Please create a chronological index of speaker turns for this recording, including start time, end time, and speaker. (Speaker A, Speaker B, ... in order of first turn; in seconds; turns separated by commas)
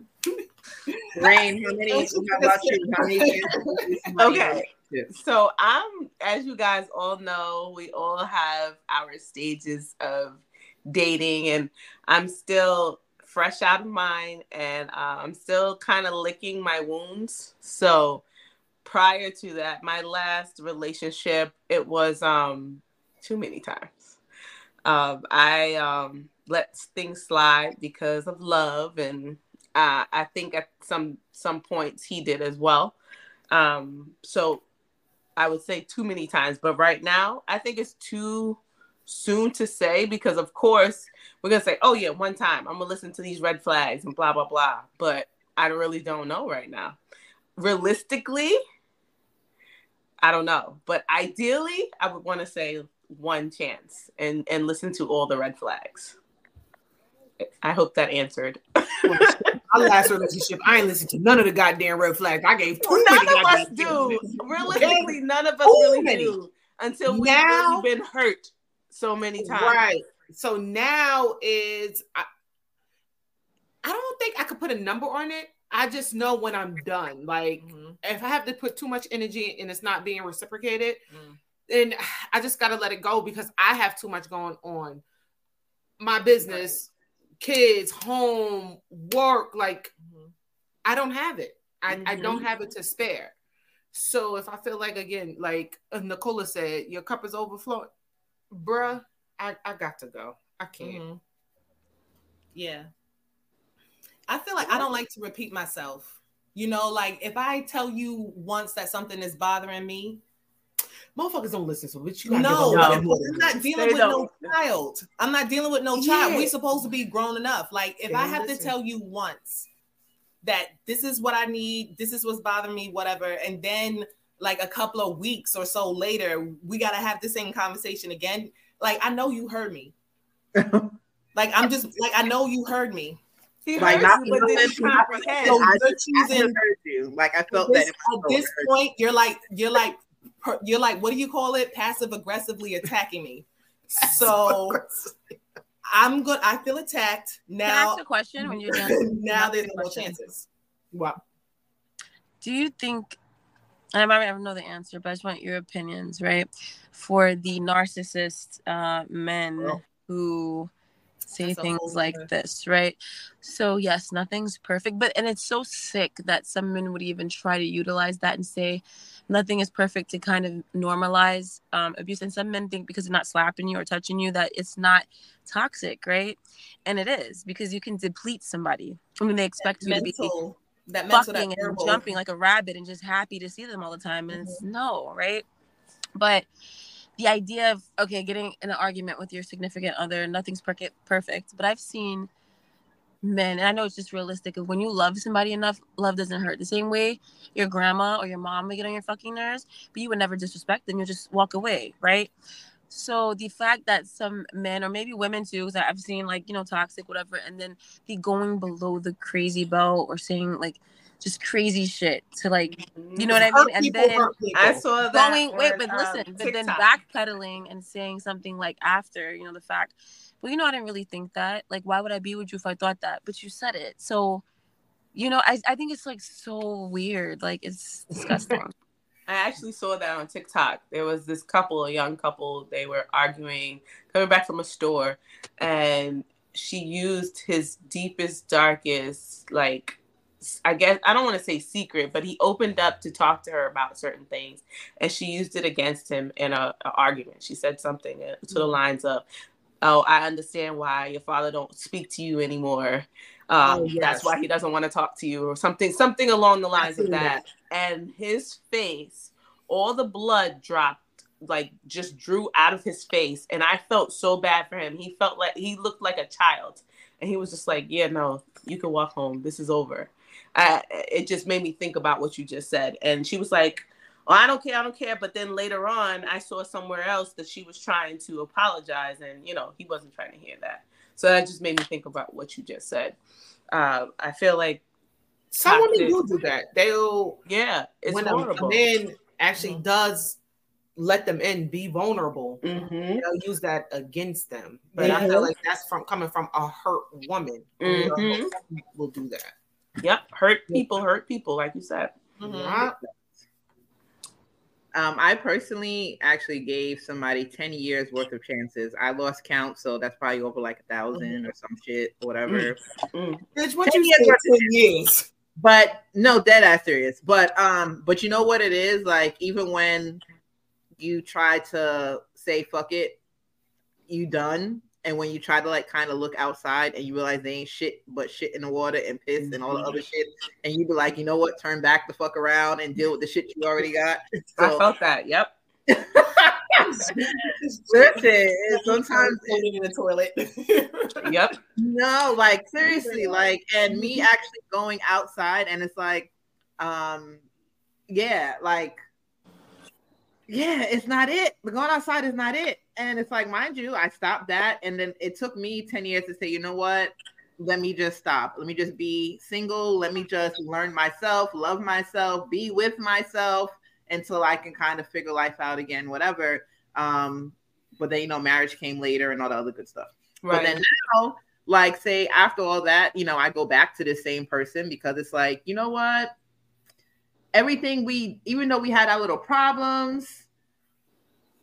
Speaker A: 1.1-5.1, Speaker B: 1.9-3.8, Speaker C: 4.2-18.2, Speaker C: 18.8-24.2, Speaker C: 24.8-33.0, Speaker C: 33.5-34.6, Speaker C: 35.4-47.0, Speaker C: 47.6-48.6, Speaker C: 50.2-56.1, Speaker C: 57.4-59.3, Speaker B: 59.0-66.4, Speaker C: 62.8-69.8, Speaker D: 63.5-64.2, Speaker B: 67.0-67.9, Speaker B: 69.4-72.3, Speaker B: 73.8-81.1, Speaker D: 77.6-78.0, Speaker B: 81.7-85.0, Speaker B: 86.0-86.9, Speaker D: 86.4-86.8, Speaker B: 87.4-89.9, Speaker B: 90.8-93.3, Speaker D: 91.9-92.4, Speaker B: 93.9-97.9, Speaker B: 98.5-101.0, Speaker D: 100.8-101.2, Speaker D: 102.5-102.9, Speaker D: 104.3-110.2, Speaker B: 111.2-114.1, Speaker D: 112.2-119.7, Speaker B: 115.9-116.5, Speaker B: 118.1-118.7, Speaker D: 120.4-129.9, Speaker A: 130.6-130.9, Speaker D: 131.3-133.2, Speaker C: 133.7-134.9, Speaker D: 133.7-136.6, Speaker A: 133.8-138.7, Speaker B: 134.3-136.1, Speaker D: 137.5-144.8, Speaker B: 143.9-145.1, Speaker D: 145.9-148.0, Speaker E: 147.6-150.2, Speaker D: 148.8-150.5, Speaker B: 150.9-151.2, Speaker E: 152.4-153.2, Speaker E: 153.9-160.7, Speaker E: 161.3-180.3, Speaker D: 161.4-162.3, Speaker D: 179.6-182.1, Speaker E: 181.1-185.4, Speaker D: 184.3-184.6, Speaker E: 186.1-186.5, Speaker E: 187.2-192.3, Speaker E: 193.2-202.3, Speaker E: 202.9-214.3, Speaker C: 212.9-213.3, Speaker B: 213.3-214.8, Speaker C: 214.5-216.8, Speaker E: 215.0-224.4, Speaker E: 225.1-228.7, Speaker C: 229.3-249.2, Speaker C: 249.8-283.2, Speaker D: 253.7-254.3, Speaker C: 283.7-284.8, Speaker C: 285.5-286.2, Speaker B: 285.5-287.4, Speaker C: 287.4-288.9, Speaker B: 288.1-290.4, Speaker D: 289.6-289.8, Speaker B: 290.9-292.6, Speaker C: 292.6-293.2, Speaker B: 293.2-299.5, Speaker D: 294.9-295.5, Speaker C: 295.0-295.3, Speaker C: 297.8-298.5, Speaker C: 300.0-302.1, Speaker D: 302.4-302.9, Speaker B: 302.4-303.0, Speaker A: 304.9-312.8, Speaker C: 312.5-313.4, Speaker B: 313.5-315.3, Speaker A: 313.8-314.6, Speaker A: 315.6-320.2, Speaker A: 321.0-323.2, Speaker A: 324.1-334.8, Speaker C: 329.4-329.8, Speaker C: 334.6-335.5, Speaker A: 335.9-336.8, Speaker A: 337.9-339.6, Speaker B: 338.7-341.3, Speaker C: 341.2-341.6, Speaker A: 341.8-347.4, Speaker B: 343.9-344.2, Speaker A: 348.1-349.0, Speaker A: 350.5-376.3, Speaker C: 370.4-370.7, Speaker A: 377.5-380.4